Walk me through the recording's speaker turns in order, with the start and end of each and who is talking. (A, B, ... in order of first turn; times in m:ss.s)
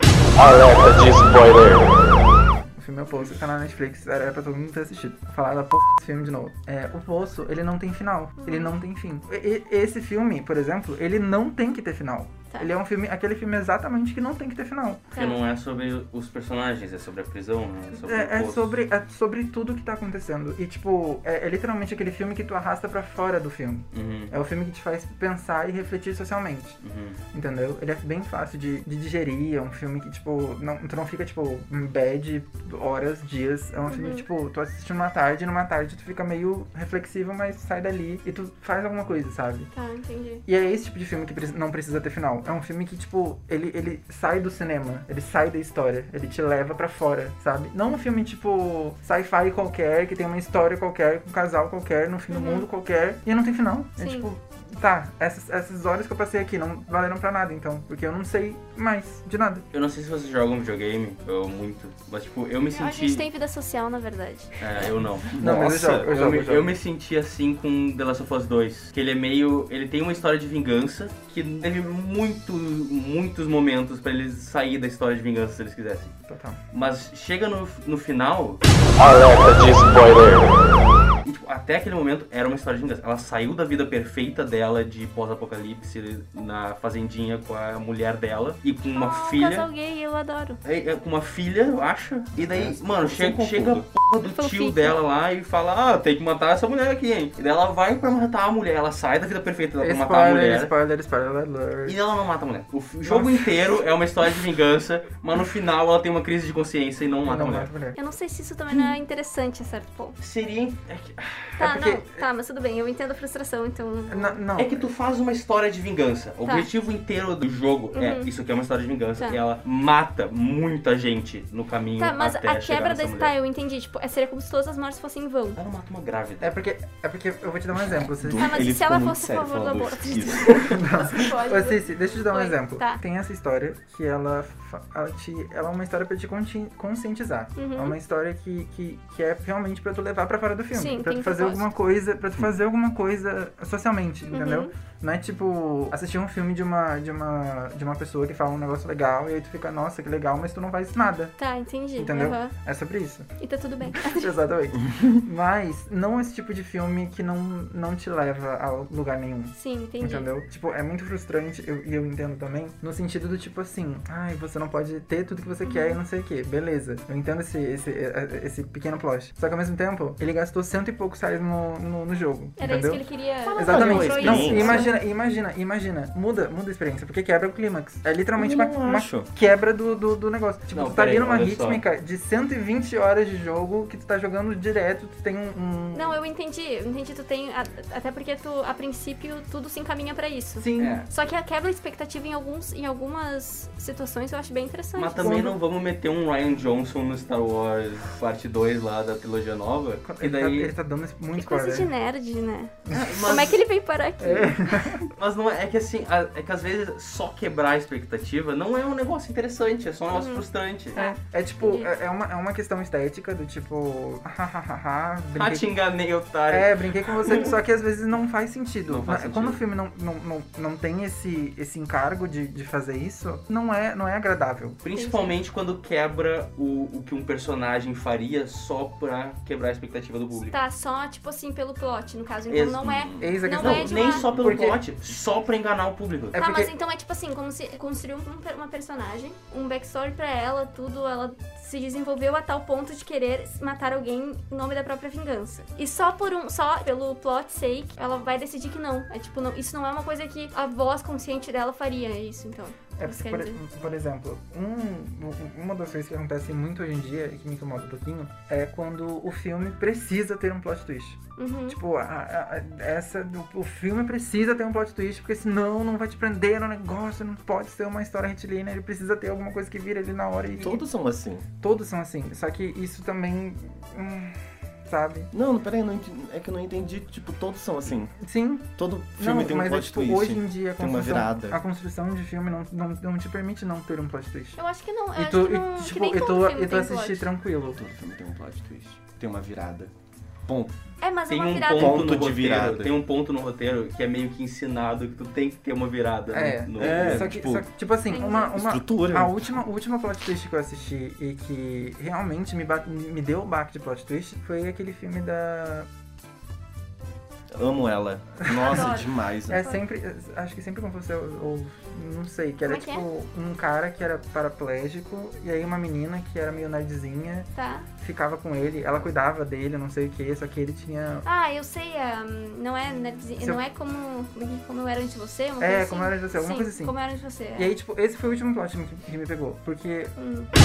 0:00.4-0:02.2 A
0:02.7-0:15.1 B
0:08.4-0:08.7 C
0:15.1-0:15.4 C
0:15.2-0:18.7 D
0:17.9-0:26.8 B
0:23.9-0:24.4 D
0:26.8-0:27.2 D
0:27.3-0:39.7 B
0:33.9-0:34.2 C
0:39.7-0:40.4 C
0:40.4-0:59.6 B
0:52.3-0:52.6 C
0:54.0-0:54.3 C
0:59.7-1:03.3 D
1:02.7-1:04.6 C
1:04.6-1:05.3 D
1:05.3-1:06.1 E
1:05.4-1:06.7 B
1:05.9-1:16.1 D
1:16.3-1:16.6 B
1:16.7-1:18.6 D
1:19.0-1:20.6 A
1:21.2-1:29.7 D
1:28.9-1:30.6 C
1:30.6-1:40.7 D
1:32.4-1:33.9 E
1:34.4-1:35.0 C
1:39.8-1:42.0 B
1:41.9-1:47.7 D
1:43.0-1:43.8 B
1:47.2-1:48.0 B
1:47.9-1:50.2 C
1:48.7-1:49.0 D
1:50.2-1:51.6 D
1:51.6-1:54.4 C
1:51.6-1:52.2 B
1:54.1-1:54.9 B
1:54.6-2:03.3 D
1:57.9-1:58.3 C
2:02.0-2:05.6 C
2:05.6-2:06.6 D
2:06.4-2:08.7 B
2:07.8-2:10.7 E
2:08.4-2:13.0 C
2:10.5-2:31.3 B
2:17.6-2:18.0 C
2:20.7-2:21.7 C
2:24.3-2:24.7 C
2:31.4-2:32.5 C
2:32.0-2:33.3 B
2:33.4-2:34.3 C
2:33.8-3:06.2 B
2:39.6-2:40.3 C
2:45.6-2:46.0 C
2:52.6-2:54.9 C
2:53.6-2:54.9 E
2:58.4-2:59.3 E
3:00.7-3:01.8 D
3:05.9-3:15.4 C
3:10.6-3:11.0 B
3:10.8-3:11.1 D
3:14.9-3:20.7 D
3:15.2-3:15.6 B
3:20.0-3:21.9 B
3:21.4-3:24.9 C
3:22.8-3:23.5 B
3:22.9-3:23.6 D
3:24.2-3:25.1 B
3:25.1-3:31.0 D
3:30.1-3:30.4 C
3:30.9-3:31.9 C
3:31.0-3:35.7 B
3:35.3-3:37.6 D
3:36.5-3:44.8 B
3:38.9-3:39.6 D
3:44.8-3:50.6 D
3:44.9-3:45.4 C
3:50.5-3:54.3 C
3:52.5-3:56.4 D
3:53.2-3:54.8 B
3:56.3-3:56.7 B
3:56.4-4:13.6 C
4:13.0-4:30.8 B
4:21.4-4:21.8 C
4:30.6-4:31.4 E
4:31.6-4:35.3 B
4:35.3-4:38.1 E
4:38.1-4:44.6 B
4:38.8-4:41.6 E
4:44.6-4:47.3 C
4:45.1-4:47.8 B
4:47.8-4:49.9 E
4:50.4-4:50.7 E
4:51.0-4:52.1 C
4:51.3-4:57.3 D
4:51.7-4:53.0 E
4:56.3-5:05.9 B
4:56.8-4:57.7 E
4:58.1-4:58.6 C
4:58.5-4:59.6 E
5:07.5-5:09.7 E
5:08.4-5:09.0 B
5:08.6-5:09.8 C
5:09.5-5:21.2 B
5:12.7-5:13.0 C
5:17.6-5:17.9 C
5:21.2-5:27.7 C
5:25.6-5:26.9 B
5:27.6-5:30.1 B
5:30.2-5:30.5 C